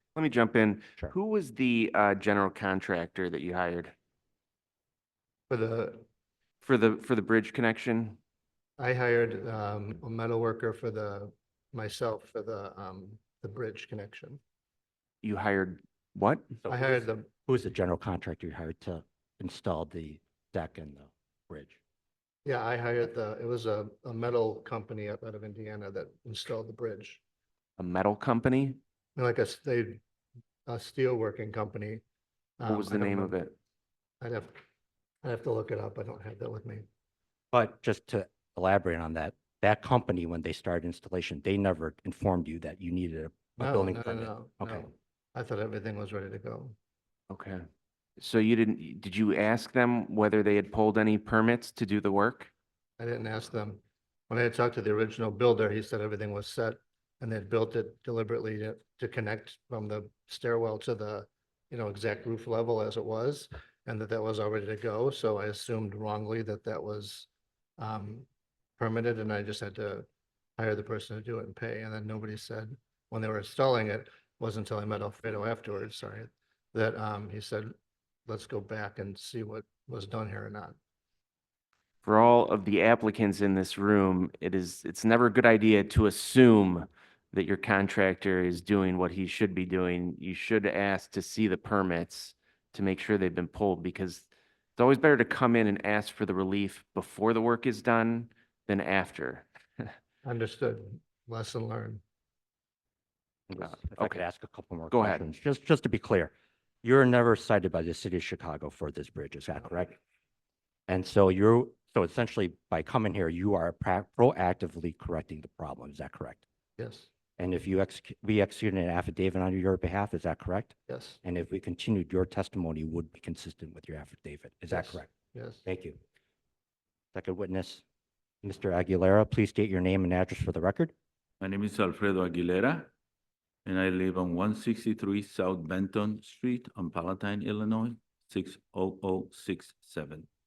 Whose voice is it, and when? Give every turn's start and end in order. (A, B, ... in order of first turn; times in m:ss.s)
0:00.2-0:03.9 A
0:05.5-0:06.0 B
0:06.6-0:08.2 A
0:08.8-0:14.4 B
0:15.2-0:16.5 A
0:16.6-0:21.8 C
0:16.7-0:17.3 B
0:22.4-0:27.2 B
0:27.8-0:28.8 A
0:29.2-0:30.0 B
0:30.6-0:32.0 B
0:32.6-0:33.4 B
0:32.7-0:33.5 A
0:34.2-0:34.6 B
0:35.2-0:36.8 B
0:37.5-0:44.9 C
0:43.6-0:46.7 B
0:47.3-0:47.6 A
0:48.2-0:52.5 A
0:53.0-1:07.3 B
1:07.8-1:08.3 B
1:08.8-1:10.0 B
1:10.6-1:17.7 B
1:18.3-1:20.8 B
1:22.0-1:39.9 A
1:40.2-1:42.0 B
1:43.5-1:50.0 C
1:43.6-1:44.2 A
1:44.9-1:45.2 A
1:50.9-1:56.4 C
1:56.8-1:57.1 B
1:57.4-2:05.1 C
2:00.9-2:01.2 B
2:04.7-2:05.6 B
2:05.6-2:06.0 C
2:07.1-2:07.8 C
2:08.4-2:10.9 C
2:11.4-2:12.9 D
2:13.6-2:20.3 D